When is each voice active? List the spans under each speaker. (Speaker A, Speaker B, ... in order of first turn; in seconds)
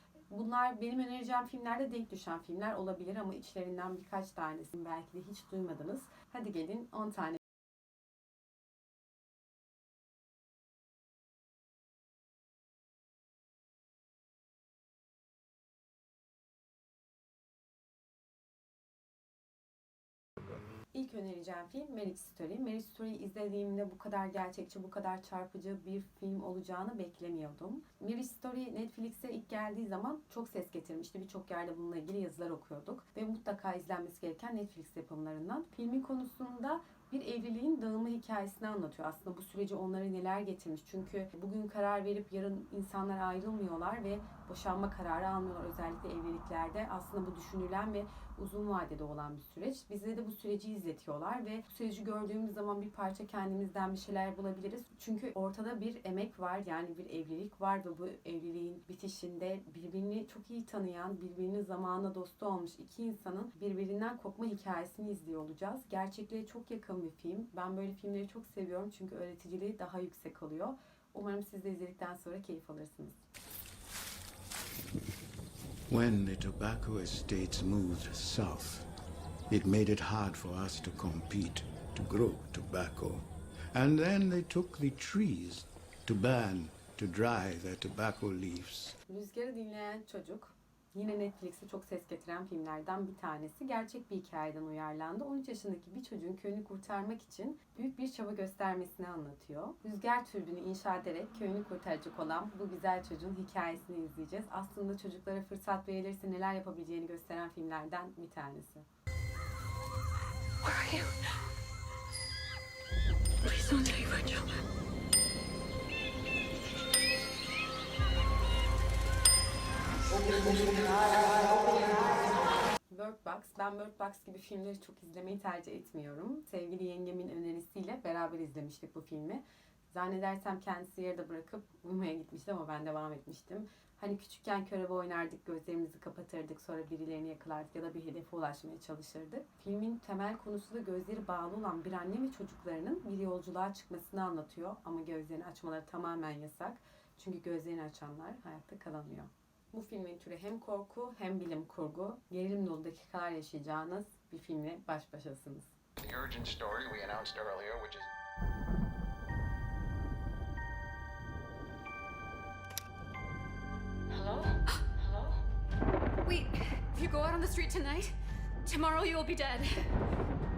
Speaker A: 0.3-7.4, 20.9-73.2, 89.1-108.8, 122.9-155.7
Speaker B: 75.9-78.9, 79.5-88.9
Speaker C: 110.7-111.1, 113.4-114.6, 120.2-121.9, 164.1-165.0, 166.2-168.1, 168.7-169.8
Speaker D: 156.0-158.1